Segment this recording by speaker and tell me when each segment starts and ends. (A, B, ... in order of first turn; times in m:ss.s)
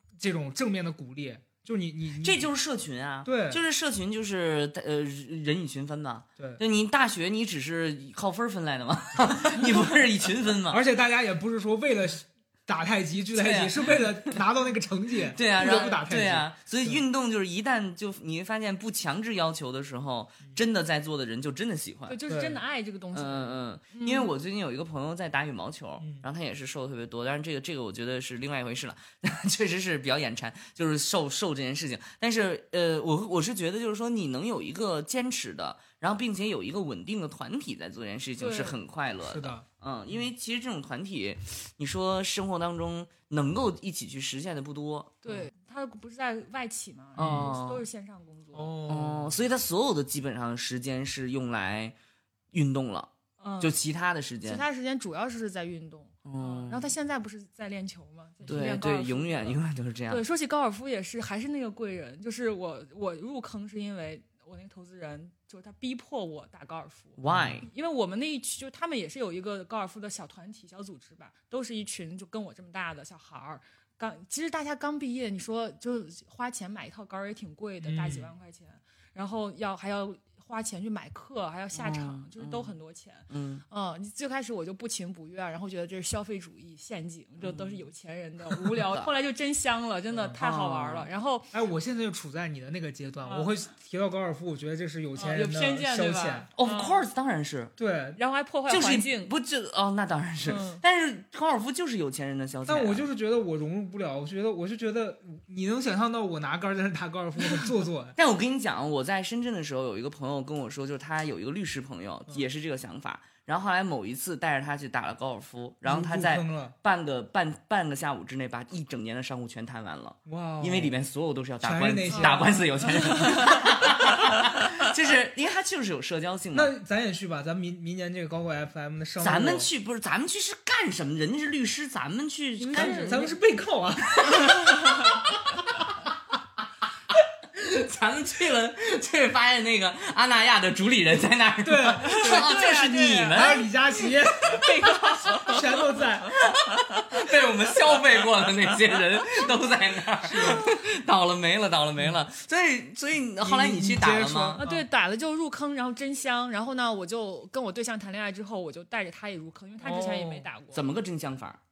0:00.2-0:02.5 A
0:02.2-0:10.8 B
0:03.2-0:03.6 A
0:10.7-0:17.0 A
0:13.4-0:14.4 B
0:15.4-0:22.2 B
0:22.1-0:24.3 C
0:22.3-0:22.6 A
0:23.1-0:45.2 B
0:38.4-0:38.8 C
0:39.2-0:40.3 A
0:45.2-0:48.7 C
0:47.2-0:47.5 A
0:47.2-0:47.8 B
0:48.5-0:49.4 A
0:48.9-0:52.0 B
0:52.5-0:54.6 B
0:53.4-0:53.8 C
0:54.4-1:31.5 C
0:56.3-0:56.9 B
0:58.4-0:58.7 A
0:58.5-1:00.2 B
1:07.2-1:07.7 B
1:07.3-1:07.6 A
1:17.8-1:18.3 A
1:21.7-1:22.8 B
1:23.3-1:23.6 B
1:27.4-1:27.8 B
1:28.5-1:29.1 B
1:30.1-1:30.4 A
1:30.4-1:31.1 B
1:31.5-1:36.5 A
1:33.2-1:33.5 C
1:35.2-1:37.1 C
1:36.6-1:37.7 B
1:37.8-1:38.2 A
1:38.2-1:39.3 C
1:38.7-1:43.1 B
1:40.4-1:40.8 C
1:42.7-1:48.2 A
1:48.2-2:06.7 B
1:55.8-1:56.8 A
2:00.3-2:01.0 A
2:01.6-2:03.2 A
2:02.1-2:03.6 C
2:06.5-2:09.7 A
2:09.2-2:13.2 B
2:12.6-2:13.4 C
2:12.7-2:15.1 A
2:17.5-2:25.6 B
2:21.6-2:22.7 A
2:22.0-2:23.7 C
2:23.3-2:24.7 A
2:24.5-2:25.6 C
2:25.5-2:26.4 A
2:26.3-2:34.6 B
2:30.3-2:30.7 A
2:30.4-2:30.6 C
2:33.4-2:34.9 A
2:34.6-2:40.8 C
2:39.8-2:40.5 A
2:40.7-2:41.6 B